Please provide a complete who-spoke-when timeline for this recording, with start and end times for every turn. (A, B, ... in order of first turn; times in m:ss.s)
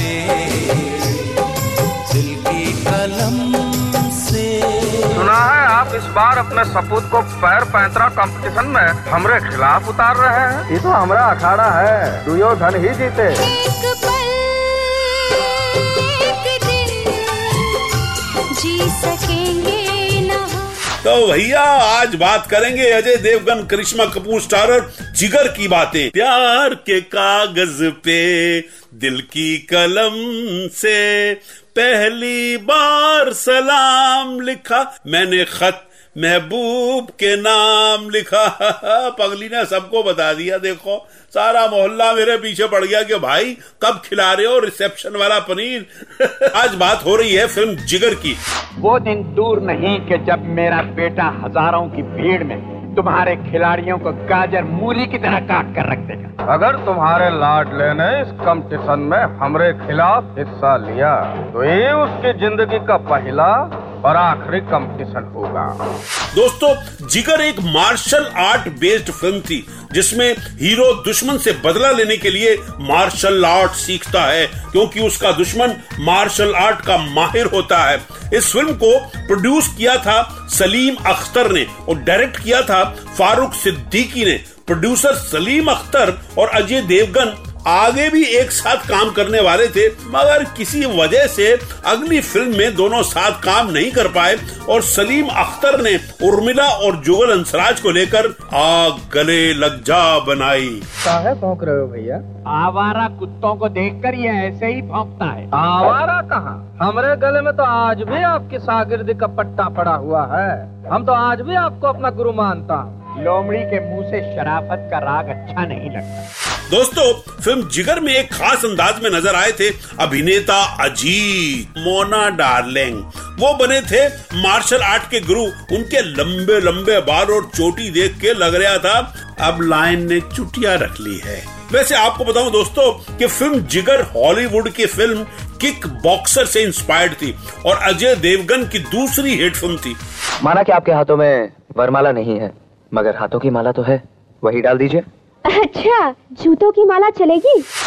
0:05.1-0:13.4 A
0:13.8-0:15.3 B
0:16.3-0:17.6 B
0:18.6-0:20.8 B
0:21.0-0:48.4 C
0:48.8-0:56.3 D
0:56.5-1:05.7 A
1:06.3-1:40.8 C
1:41.0-1:42.2 A
1:42.4-1:45.5 D
1:45.5-1:52.9 A
1:53.2-1:56.3 D
1:56.7-2:20.0 C
2:21.7-2:22.0 E
2:22.9-2:25.0 E
2:25.5-2:27.6 F